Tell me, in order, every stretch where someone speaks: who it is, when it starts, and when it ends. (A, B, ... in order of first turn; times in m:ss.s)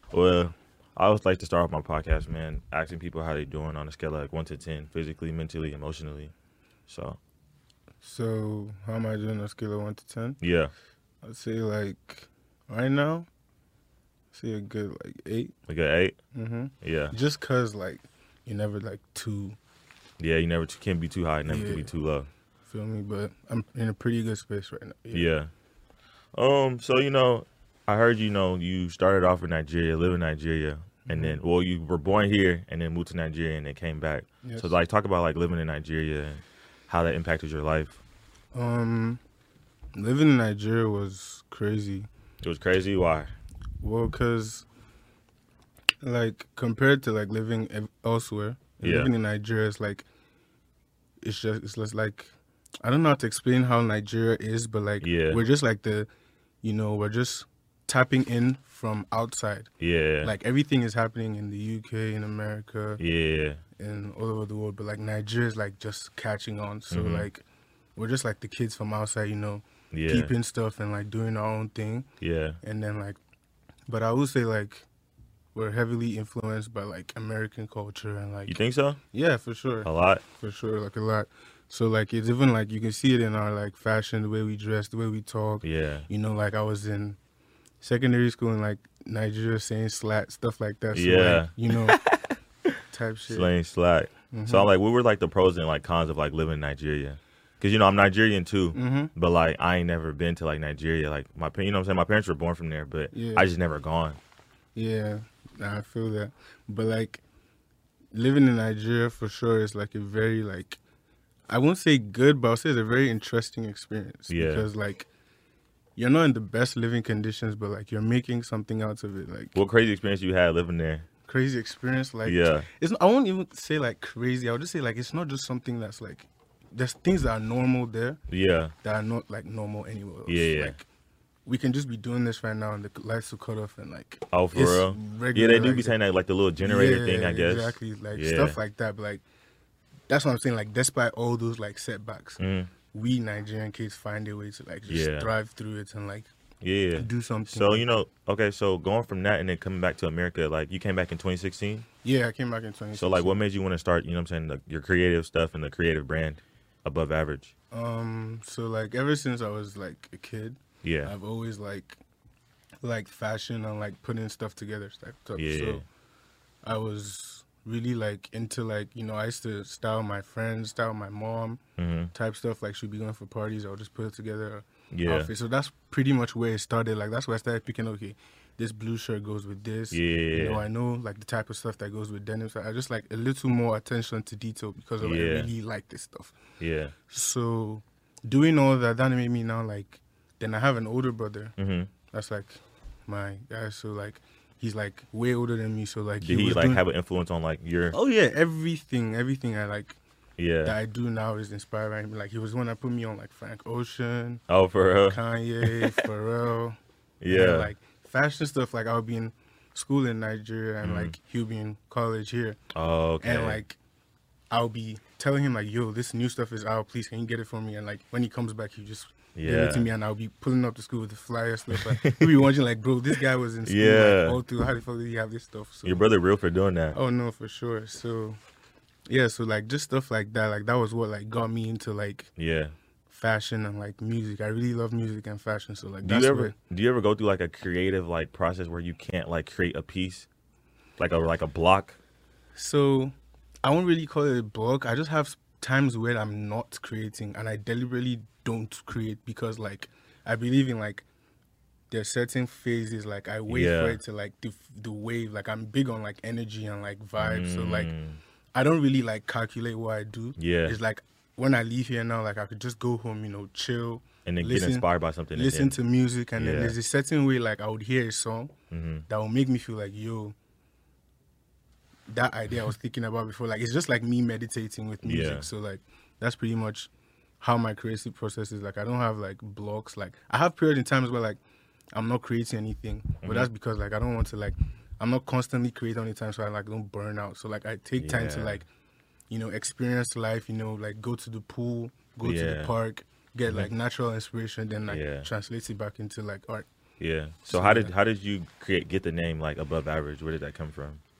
0:00.1-0:06.3 A
0:06.9-0:07.2 A
0:08.0-0:10.4 B
0:10.4-0:10.7 A
0:11.2-0:13.3 B
0:14.3-0:15.5 B
0:15.7-0:16.2 A
0:16.3-0:19.6 B
0:16.8-0:17.1 A
0:20.2-0:22.3 A
0:21.4-0:21.9 B
0:22.6-0:25.3 B
0:25.1-0:25.5 A
0:26.3-0:38.0 A
0:31.0-0:31.4 B
0:34.4-0:34.8 B
0:38.5-0:39.2 B
0:39.9-0:42.1 B
0:42.4-0:43.3 A
0:43.8-0:44.6 B
0:46.0-0:50.0 B
0:48.8-0:49.1 A
0:51.2-0:56.1 B
0:55.0-0:55.4 A
0:56.6-0:59.7 B
0:59.8-1:00.3 A
1:00.2-1:03.0 B
1:03.0-1:03.6 A
1:03.8-1:07.4 B
1:06.9-1:07.3 A
1:08.0-1:12.1 B
1:09.9-1:10.3 A
1:12.2-1:12.6 A
1:12.6-1:13.2 B
1:13.9-1:14.8 B
1:15.5-1:18.6 B
1:18.5-1:19.0 A
1:19.1-1:27.2 B
1:19.8-1:20.2 A
1:25.6-1:26.0 A
1:27.8-1:32.0 B
1:30.9-1:32.7 A
1:32.9-1:33.5 B
1:33.3-1:44.2 A
1:34.3-1:34.7 B
1:38.7-1:39.1 B
1:43.1-1:43.5 B
1:44.7-1:47.2 B
1:48.1-1:50.8 B
1:51.5-1:55.1 B
1:54.3-1:54.7 A
1:56.0-1:59.6 B
1:59.5-2:01.0 A
2:01.3-2:08.2 B
2:02.2-2:02.7 A
2:08.3-2:08.7 A
2:08.8-2:10.8 B
2:10.3-2:10.8 A
2:11.4-2:16.0 B
2:14.3-2:18.6 A
2:16.6-2:19.2 B
2:20.1-2:26.3 B
2:22.4-2:22.7 A
2:24.9-2:25.3 A
2:26.6-2:31.8 A
2:27.0-2:27.9 B
2:32.0-2:33.4 B
2:33.0-2:37.5 A
2:37.7-2:42.0 B
2:40.8-2:41.1 A
2:42.8-2:45.8 B
2:45.4-2:45.8 A
2:46.6-2:51.6 B
2:51.8-2:52.1 A
2:52.1-3:06.4 B
2:54.9-2:55.3 A
2:59.9-3:00.6 A
3:05.0-3:05.5 A
3:06.6-3:06.9 A
3:07.1-3:11.6 B
3:11.6-3:11.9 A
3:12.1-3:16.8 B
3:16.2-3:18.0 A
3:17.9-3:20.0 B
3:20.4-3:20.8 A
3:20.6-3:24.4 B
3:24.5-3:26.0 A
3:25.1-3:32.6 B
3:27.2-3:27.7 A
3:30.8-3:31.1 A
3:32.7-3:33.6 A
3:33.2-3:33.8 B
3:34.5-3:46.1 B
3:39.3-3:39.9 A
3:41.7-3:42.4 A
3:43.6-3:44.4 A
3:45.8-3:47.0 A
3:46.9-3:48.4 B
3:49.1-3:52.3 B
3:52.4-3:52.7 A
3:53.1-3:56.5 B
3:56.0-4:00.3 A
4:01.0-4:02.0 A
4:02.6-4:11.0 B
4:11.9-4:17.9 B
4:13.5-4:14.0 A
4:17.2-4:18.2 A
4:18.5-4:28.5 B
4:20.4-4:20.8 A
4:24.2-4:25.8 A
4:26.4-4:26.8 A
4:28.7-4:29.0 A
4:29.1-4:30.3 B
4:32.1-4:41.4 B
4:35.0-4:35.5 A
4:41.9-4:48.7 B
4:43.2-4:43.5 A
4:48.0-4:48.6 A
4:49.3-4:56.7 B
4:52.2-4:52.7 A
4:54.9-4:55.3 A
4:57.0-5:01.0 A
4:57.5-4:57.9 B